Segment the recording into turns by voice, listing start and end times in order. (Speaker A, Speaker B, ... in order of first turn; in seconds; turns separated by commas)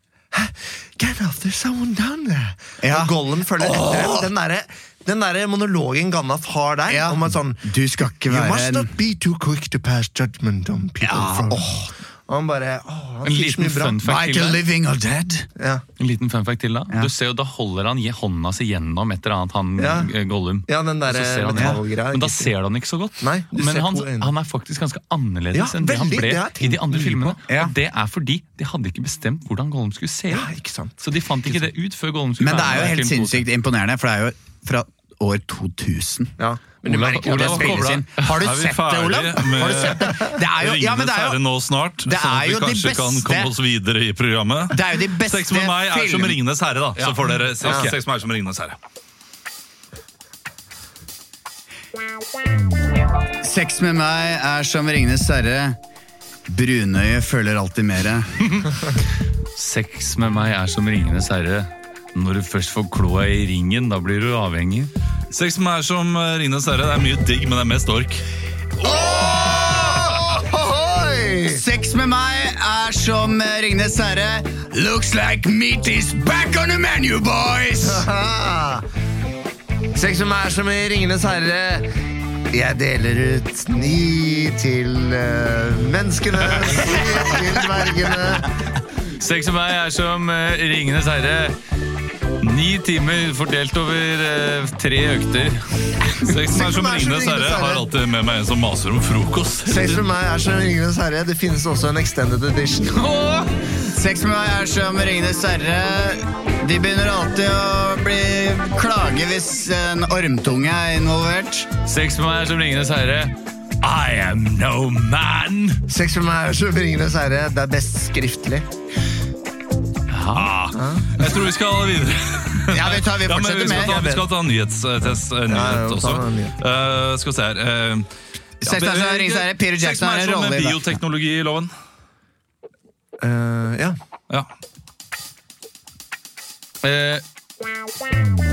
Speaker A: 0.3-7.6, Speaker B: 2.8-4.3, Speaker B: 6.9-8.9, Speaker A: 8.3-11.7, Speaker B: 11.0-11.9, Speaker A: 12.3-14.0, Speaker C: 13.2-14.6, Speaker B: 14.0-15.5, Speaker A: 15.6-15.8, Speaker C: 16.0-33.4, Speaker A: 19.8-20.1, Speaker A: 20.7-22.5, Speaker A: 23.2-24.3, Speaker A: 25.5-27.4, Speaker B: 27.5-27.7, Speaker A: 30.3-30.9, Speaker B: 32.4-36.3, Speaker A: 36.4-38.0, Speaker C: 36.9-38.4, Speaker B: 37.2-41.4, Speaker D: 38.4-48.8, Speaker B: 42.0-43.5, Speaker B: 44.7-46.4, Speaker C: 47.6-47.9, Speaker A: 47.6-47.9, Speaker B: 53.4-55.8, Speaker B: 56.5-58.6, Speaker C: 59.5-64.9, Speaker D: 65.3-68.2, Speaker B: 68.8-70.5, Speaker A: 68.8-71.6, Speaker B: 71.5-78.1, Speaker A: 77.8-78.8, Speaker A: 79.9-81.9, Speaker A: 82.5-88.5, Speaker C: 89.2-91.6, Speaker C: 92.4-95.6, Speaker D: 96.2-100.1, Speaker A: 96.3-97.8, Speaker A: 99.7-103.1, Speaker C: 102.9-103.7, Speaker B: 103.8-111.7, Speaker C: 111.9-115.8, Speaker A: 115.9-118.7, Speaker C: 120.1-120.7, Speaker D: 120.3-128.1, Speaker A: 120.8-121.1, Speaker B: 122.7-124.0, Speaker A: 123.7-124.2, Speaker A: 125.5-126.5, Speaker B: 128.6-131.0, Speaker D: 128.6-131.7, Speaker A: 133.2-134.0, Speaker C: 136.8-137.2